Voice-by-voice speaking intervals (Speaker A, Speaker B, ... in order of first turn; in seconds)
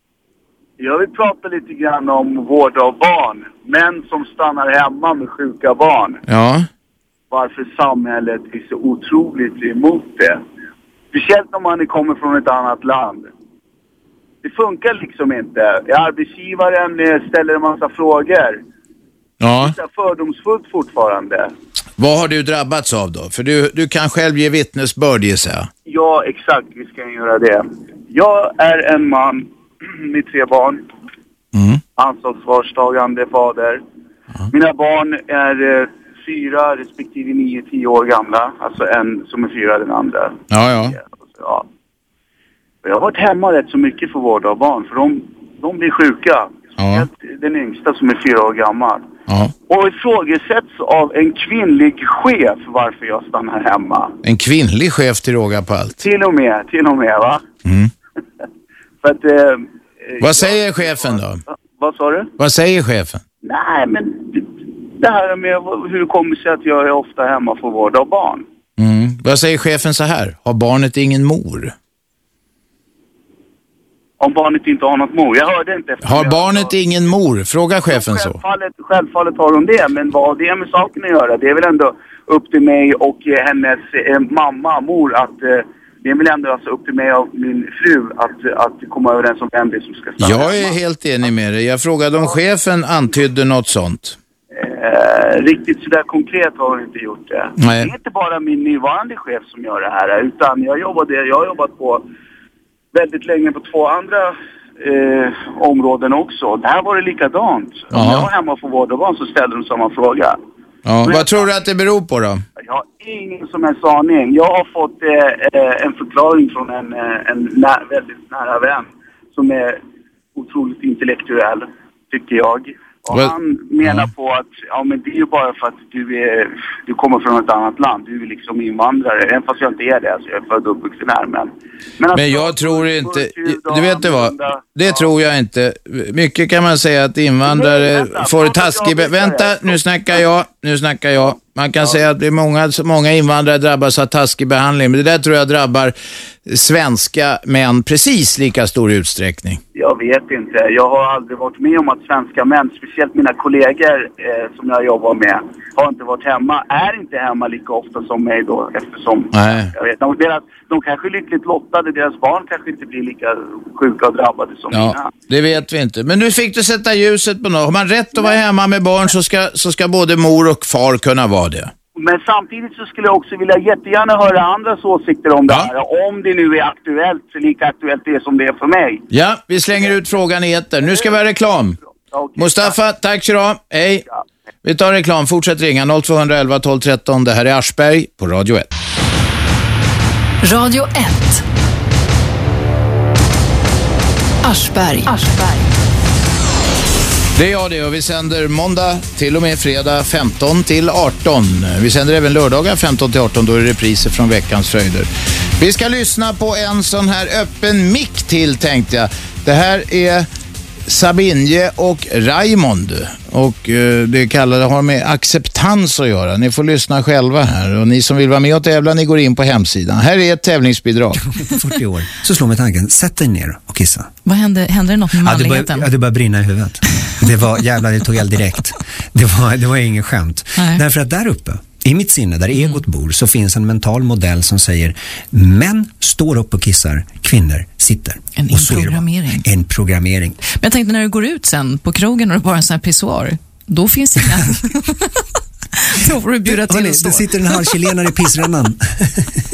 Speaker A: 0.8-6.2, 7.3-10.4, 11.1-13.3, 14.4-18.6, 19.6-21.5, 25.9-30.9, 32.0-33.8, 34.5-41.6, 42.8-49.0, 49.7-54.1, 56.0-57.4, 59.0-62.3, 63.4-68.4, 74.2-76.7, 77.9-90.7, 94.5-102.0, 102.9-110.4, 111.0-111.4, 112.6-119.8, 120.3-135.1, 137.4-140.2, 141.2-142.0, 149.7-165.1, 171.9-179.0, 180.8-181.1, 182.1-182.8
Speaker B: 6.3-6.7, 19.4-19.7, 22.0-25.7, 31.5-31.8, 40.5-41.0, 46.8-47.0, 49.3-49.5, 54.2-56.0, 57.6-57.9, 60.2-61.4, 62.4-63.2, 68.8-71.7, 76.0-78.4, 90.2-94.2, 97.6-97.9, 107.9-108.3, 110.8-112.4, 123.1-124.1, 132.1-145.9, 146.4-149.6, 159.3-159.7, 164.7-171.7, 179.1-181.8, 182.3-184.0, 184.6-188.7, 197.3-210.3, 210.9-221.2
Speaker C: 190.4-191.4, 194.4-195.7
Speaker D: 221.2-224.1, 225.2-240.4, 244.1-244.6, 246.0-249.1
Speaker E: 224.3-225.8, 238.4-239.4, 240.6-244.1, 246.1-247.2